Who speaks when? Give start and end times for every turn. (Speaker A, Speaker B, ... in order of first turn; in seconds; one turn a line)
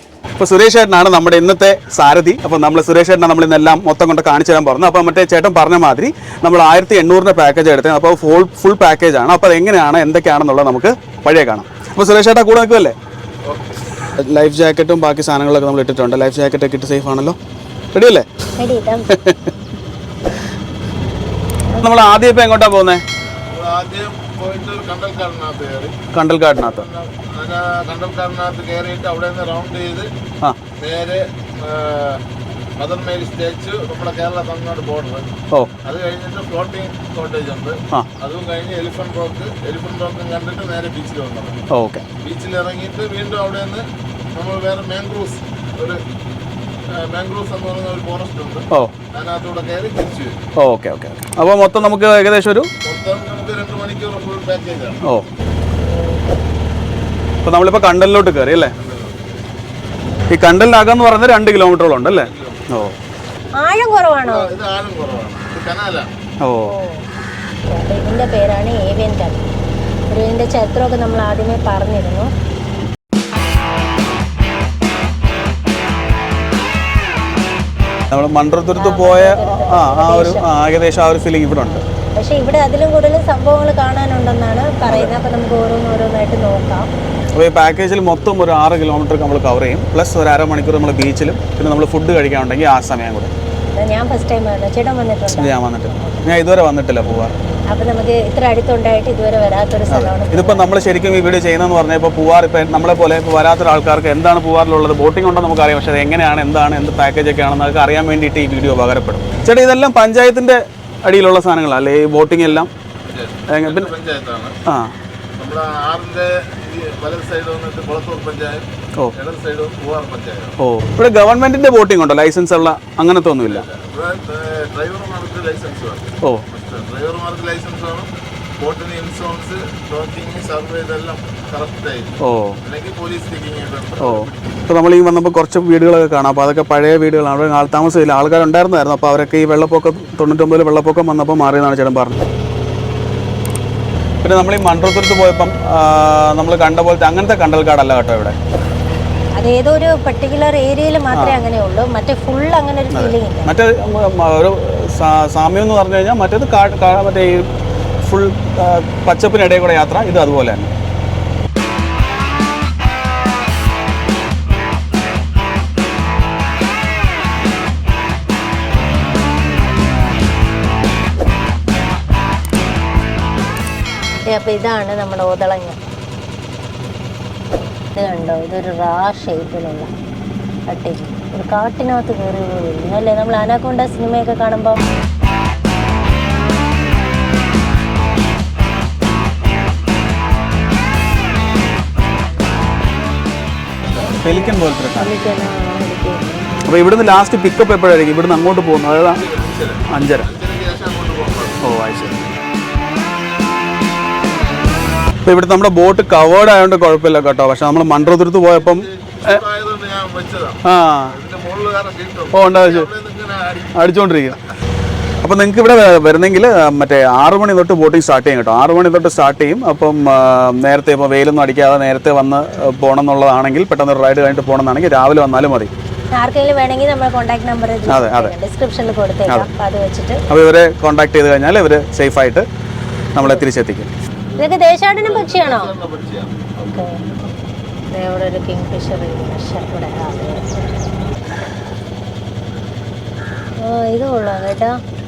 Speaker A: 0.4-12.9
Speaker B: 13.4-13.8
Speaker A: 14.2-17.4
Speaker A: 17.9-18.2
Speaker C: 18.6-19.1
Speaker A: 19.1-19.5
Speaker C: 21.7-22.0
Speaker A: 21.8-23.0
Speaker B: 23.5-25.9
Speaker A: 26.1-26.9
Speaker B: 26.6-30.1
Speaker B: 30.8-32.2
Speaker B: 32.8-35.3
Speaker B: 35.8-41.6
Speaker A: 41.7-42.0
Speaker B: 42.2-46.0
Speaker B: 46.9-50.4
Speaker A: 50.5-52.7
Speaker B: 52.8-55.0
Speaker C: 55.8-56.4
Speaker A: 57.4-58.7
Speaker B: 58.8-59.2
Speaker A: 60.3-63.0
Speaker B: 62.0-62.7
Speaker C: 63.6-64.5
Speaker B: 64.2-66.1
Speaker A: 66.4-66.7
Speaker C: 66.7-67.0
Speaker C: 67.6-69.4
Speaker C: 70.1-72.3
Speaker A: 78.1-81.8
Speaker C: 78.8-80.4
Speaker C: 82.1-86.9
Speaker A: 84.8-85.1
Speaker A: 87.3-93.3
Speaker C: 93.7-96.2
Speaker A: 95.3-97.3
Speaker C: 97.7-100.7
Speaker A: 99.9-112.7
Speaker B: 113.0-114.5
Speaker A: 113.5-113.9
Speaker B: 115.4-120.5
Speaker A: 120.6-123.6
Speaker B: 123.5-134.4
Speaker A: 132.2-132.6
Speaker A: 134.0-142.2
Speaker A: 144.2-148.3
Speaker C: 149.3-153.5
Speaker A: 151.1-151.4
Speaker A: 152.9-157.5
Speaker A: 158.0-160.7
Speaker C: 174.2-175.8
Speaker C: 177.9-179.9
Speaker C: 180.7-184.8
Speaker C: 194.0-196.5
Speaker A: 194.2-195.1
Speaker A: 196.7-199.2
Speaker B: 199.1-201.6
Speaker A: 199.9-200.3
Speaker A: 201.6-202.3
Speaker A: 205.2-209.4
Speaker B: 208.5-213.7
Speaker A: 210.6-211.1
Speaker A: 212.3-212.9
Speaker A: 213.7-214.4
Speaker A: 215.2-225.7
Speaker C: 226.1-230.2
Speaker A: 227.9-228.3
Speaker A: 230.3-232.4
Speaker A: 233.1-233.9
Speaker C: 234.4-235.7
Speaker B: 235.0-236.9
Speaker C: 236.7-237.1
Speaker C: 237.9-240.7
Speaker C: 243.6-244.8